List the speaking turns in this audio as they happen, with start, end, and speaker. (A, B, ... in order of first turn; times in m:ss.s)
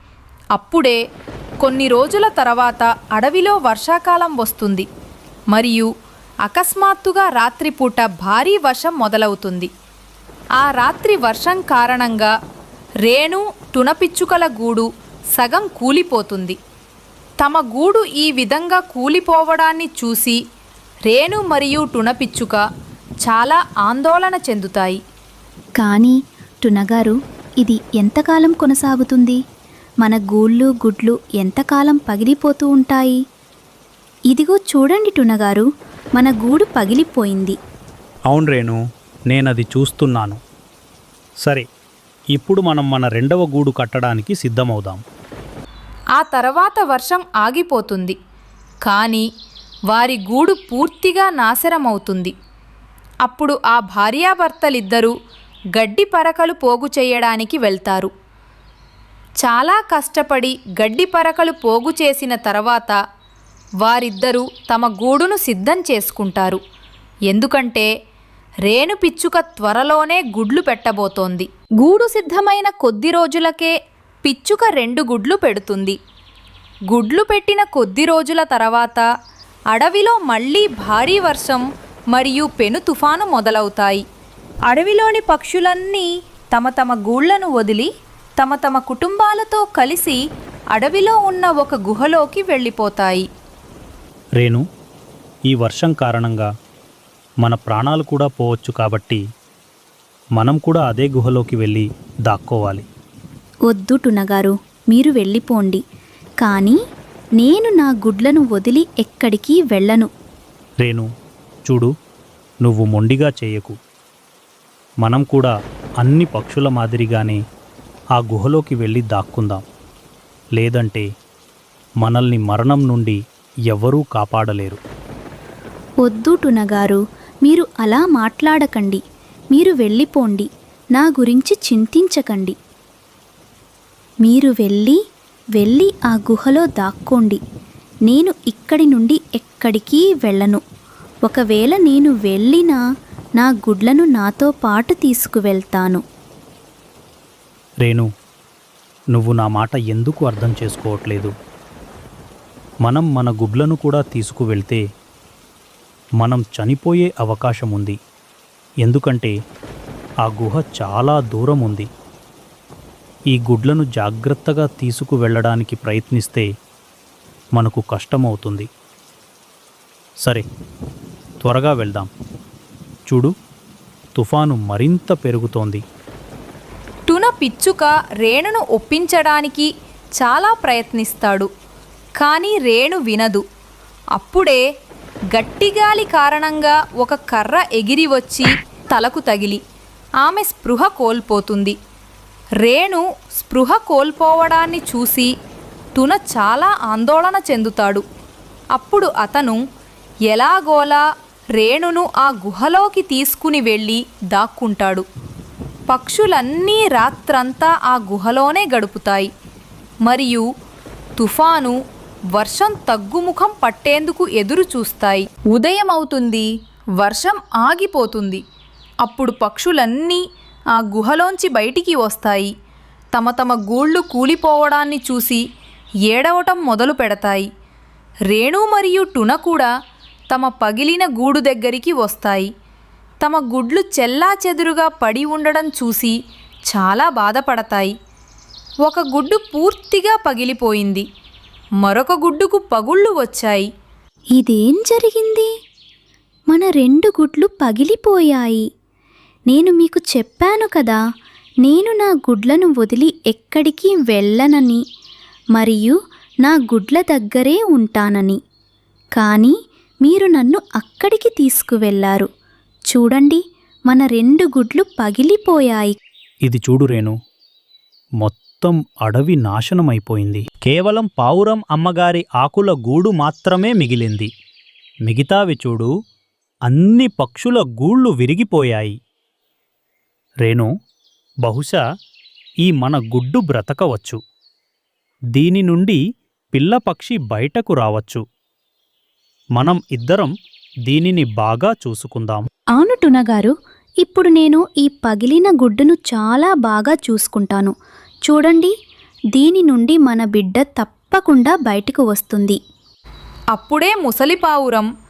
0:00.5-0:01.0 A
0:01.6-0:04.8 A
0:05.5-0:05.9 A
0:06.5-0:09.7 A
0:10.6-0:12.3 A
0:13.0-0:16.6 A
0:17.4-0:20.4 A
0:21.1-0:22.6 A
0:23.2-0:25.0 A
0:25.8-0:29.4 B
0:30.0-0:33.2 B
0:34.3-0:35.6 B
0:36.2-0:37.6 B
0:38.3-0:38.8 C
0:39.3-0:40.4 C
0:42.3-0:45.0 C
0:46.2-0:48.2 A
0:48.8-0:49.2 A
0:49.9-0:52.3 A
0:53.2-0:55.1 A
0:55.8-0:58.1 A
0:59.4-1:03.0 A
1:03.8-1:06.6 A
1:07.3-1:07.9 A
1:08.7-1:16.0 A
1:16.9-1:19.1 A
1:19.7-1:24.0 A
1:24.7-1:30.2 A
1:30.7-1:33.3 A
1:35.5-1:36.5 C
1:37.4-1:39.2 C
1:40.4-1:42.8 C
1:43.7-1:45.8 B
1:46.4-1:46.8 B
1:47.4-1:50.1 B
1:52.6-1:53.7 C
1:55.0-1:57.4 C
1:58.2-1:59.6 C
2:00.6-2:01.0 C
2:02.0-2:03.2 C
2:03.7-2:04.8 C
2:06.0-2:09.0 B
2:09.5-2:12.5 B
2:14.2-2:15.0 B
2:15.6-2:17.4 B
2:18.1-2:20.6 B
2:21.3-2:22.8 B
2:23.4-2:26.0 B
2:29.1-2:31.3 C
2:32.8-2:34.8 C
2:36.2-2:38.0 C
2:38.8-2:39.3 C
2:40.2-2:41.9 C
2:43.3-2:46.4 C
2:47.6-2:48.7 C
2:51.4-2:52.1 C
2:54.2-2:55.8 C
2:57.1-3:01.5 A
3:02.2-3:03.4 A
3:04.2-3:04.6 A
3:05.3-3:09.6 A
3:10.2-3:11.7 A
3:12.6-3:15.3 A
3:15.9-3:18.0 A
3:18.7-3:19.6 A
3:20.3-3:21.0 A
3:21.6-3:25.0 A
3:25.9-3:29.3 A
3:30.1-3:30.4 A
3:31.2-3:31.7 A
3:32.4-3:38.4 A
3:39.0-3:40.2 A
3:40.8-3:42.5 A
3:43.1-3:45.4 A
3:46.1-3:47.5 A
3:48.3-3:49.7 A
3:50.3-3:52.5 A
3:53.2-3:56.1 A
3:56.7-3:57.9 A
3:58.8-4:01.0 A
4:01.8-4:03.7 A
4:04.4-4:05.5 B
4:06.5-4:08.6 B
4:09.5-4:11.0 B
4:11.6-4:14.8 B
4:15.6-4:18.4 B
4:19.2-4:19.5 B
4:20.0-4:22.3 B
4:22.9-4:26.0 B
4:26.4-4:27.2 C
4:28.2-4:34.3 C
4:35.0-4:35.9 C
4:36.7-4:38.9 C
4:41.4-4:41.8 C
4:42.6-4:44.2 C
4:45.4-4:46.0 C
4:46.5-4:48.2 C
4:49.6-4:50.3 C
4:50.9-4:52.4 C
4:52.8-4:57.7 B
4:58.3-4:58.7 B
4:59.3-5:02.6 B
5:03.5-5:04.9 A